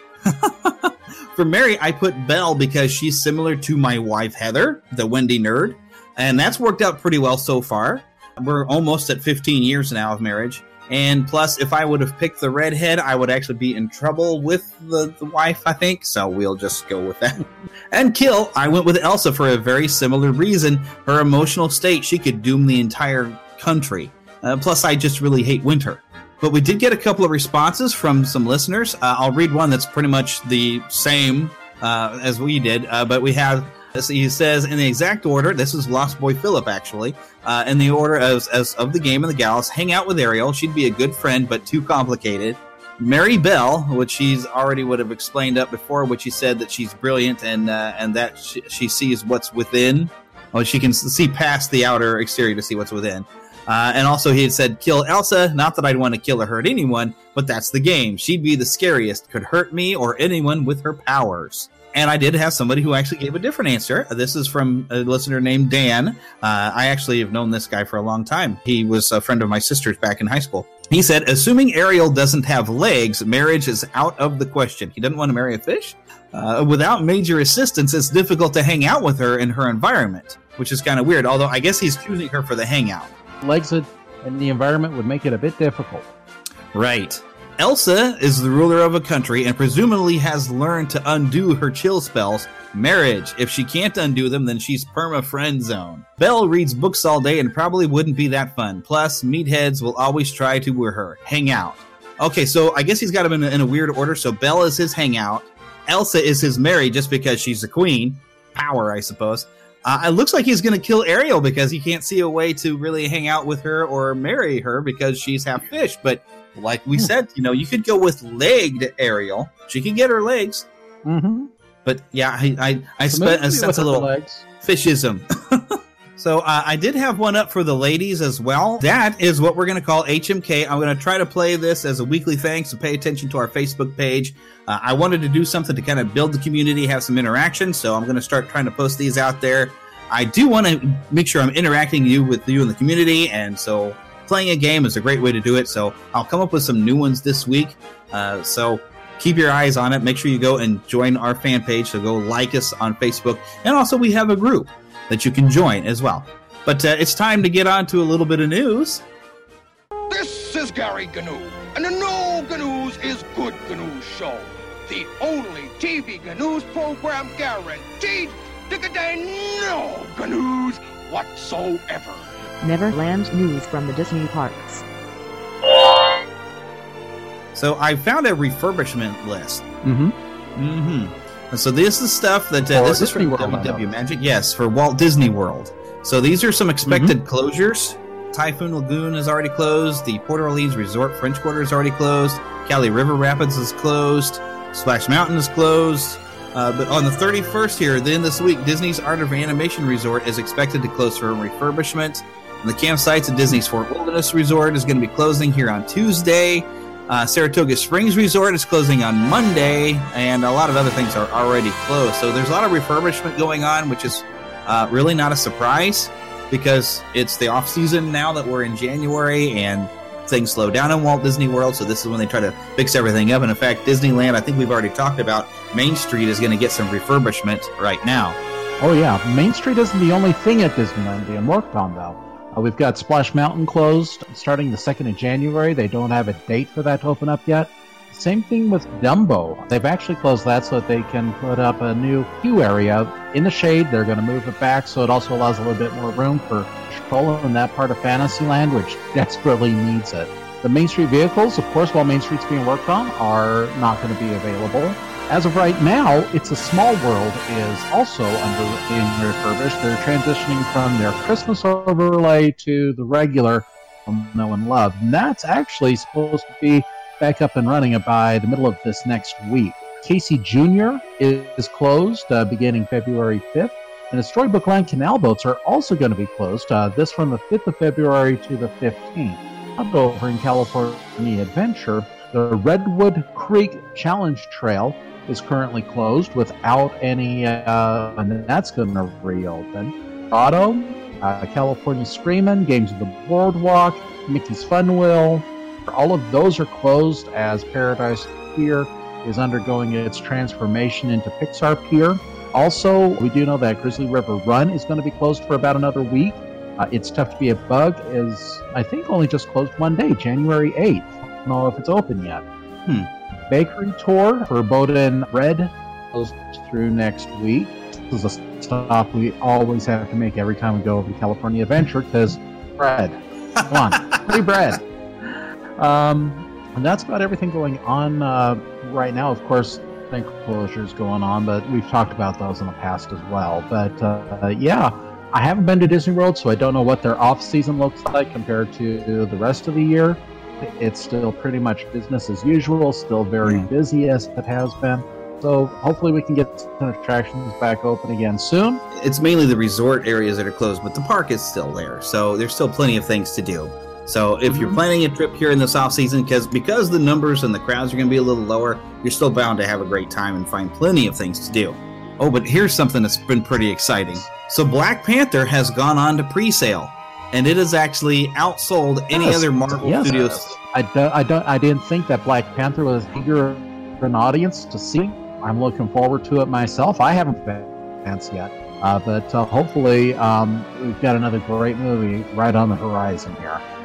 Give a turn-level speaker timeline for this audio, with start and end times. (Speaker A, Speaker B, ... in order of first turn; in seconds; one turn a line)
Speaker A: 0.3-83.1
Speaker B: 83.4-86.1
Speaker A: 86.7-120.7
Speaker B: 121.0-121.5
Speaker A: 121.8-124.1
Speaker B: 123.1-124.5
Speaker A: 124.6-125.6
Speaker A: 126.2-159.0
Speaker C: 160.1-172.5
Speaker D: 172.6-174.8
Speaker A: 177.6-179.6
Speaker B: 179.8-180.2
Speaker A: 180.6-228.4
Speaker B: 182.7-184.0
Speaker B: 186.8-187.2
Speaker B: 228.8-312.4
Speaker B: 313.5-348.8
Speaker A: 323.6-324.3
Speaker A: 343.4-343.7
Speaker A: 348.9-370.6
Speaker B: 354.5-354.8
Speaker B: 369.1-383.6